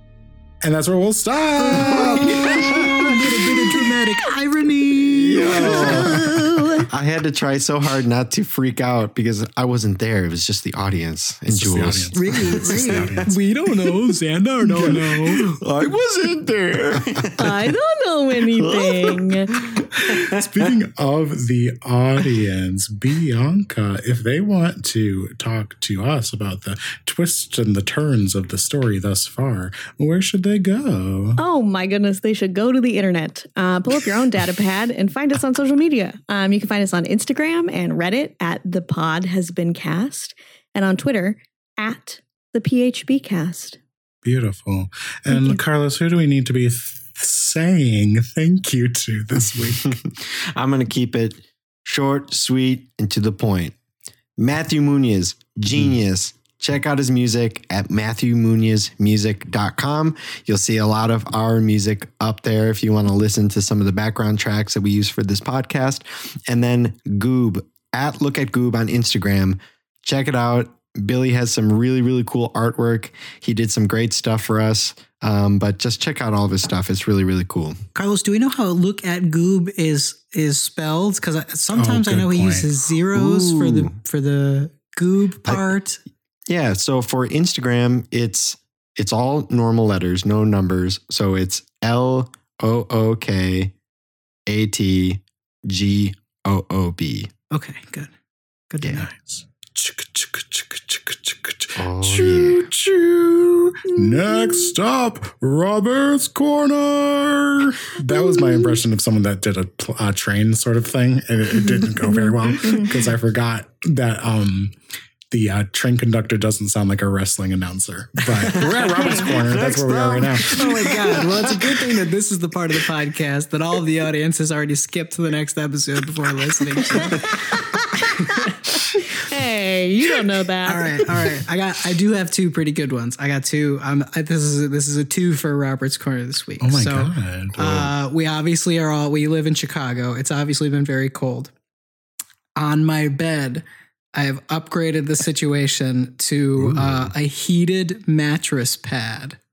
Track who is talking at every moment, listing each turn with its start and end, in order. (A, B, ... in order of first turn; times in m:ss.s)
0:00.6-0:03.2 A
0:01.7-0:06.9 B
0:01.7-0:03.2 C
0:05.2-0:06.2 C
0:05.6-0:06.0 A
0:06.9-0:13.3 C
0:11.5-0:13.4 A
0:12.1-0:15.5 B
0:14.7-0:15.2 A
0:14.8-0:17.7 C
0:17.4-0:19.6 D
0:18.5-0:20.4 C
0:19.9-0:31.4 A
0:31.4-0:43.8 D
0:44.2-0:50.0 A
0:45.3-0:45.6 D
0:49.8-0:53.8 C
0:54.4-1:17.8 C
1:18.0-1:26.0 B
1:21.7-1:22.8 A
1:23.1-1:24.0 C
1:26.5-1:33.7 C
1:34.5-1:37.3 C
1:37.5-1:38.1 B
1:38.7-1:39.1 B
1:39.0-1:54.7 A
1:41.8-1:42.7 C
1:44.1-1:44.6 D
1:51.8-1:52.9 D
1:55.3-2:00.6 A
1:58.3-2:01.9 C
1:59.0-1:59.4 D
2:00.5-2:07.4 B
2:08.5-2:11.0 D
2:10.6-2:21.5 B
2:16.6-2:17.9 A
2:22.6-2:23.6 B
2:24.1-2:29.4 B
2:26.6-2:27.1 A